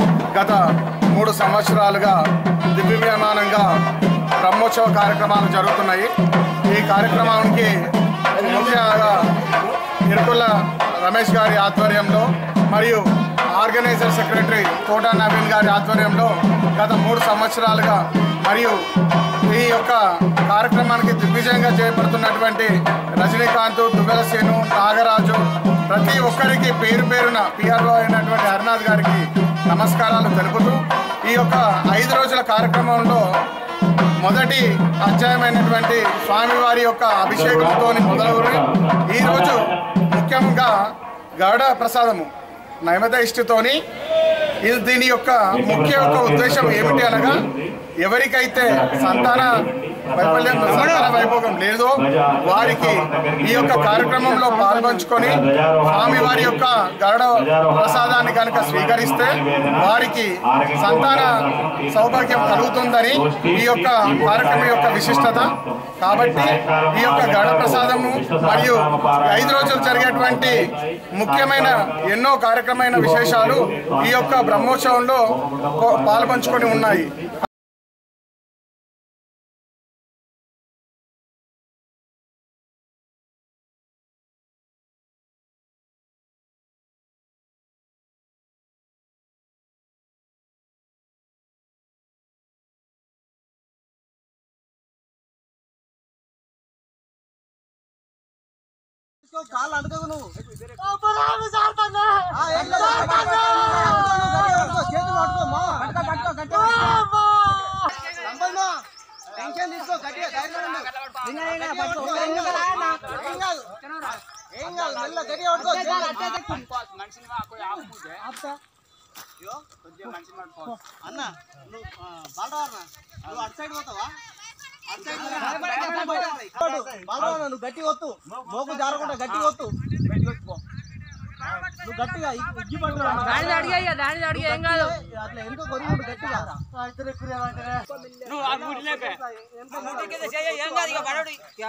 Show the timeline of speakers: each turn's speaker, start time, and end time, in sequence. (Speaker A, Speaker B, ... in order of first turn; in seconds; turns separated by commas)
Speaker A: 0.3-0.6, Speaker A: 1.1-2.2, Speaker A: 2.8-3.7, Speaker A: 4.4-6.1, Speaker A: 6.7-7.7, Speaker A: 8.3-9.2, Speaker A: 10.1-18.8, Speaker A: 19.5-33.2, Speaker A: 34.2-40.8, Speaker A: 41.4-42.3, Speaker A: 42.9-43.8, Speaker A: 44.6-47.5, Speaker A: 48.0-77.2, Speaker B: 99.2-100.3, Speaker B: 102.3-107.0, Speaker B: 108.2-108.7, Speaker B: 109.4-113.6, Speaker B: 114.6-116.7, Speaker B: 118.1-118.5, Speaker B: 120.6-121.0, Speaker B: 123.3-124.0, Speaker B: 125.1-129.7, Speaker C: 125.5-126.2, Speaker B: 131.8-133.8, Speaker C: 133.2-134.9, Speaker B: 134.3-136.6, Speaker B: 138.4-141.0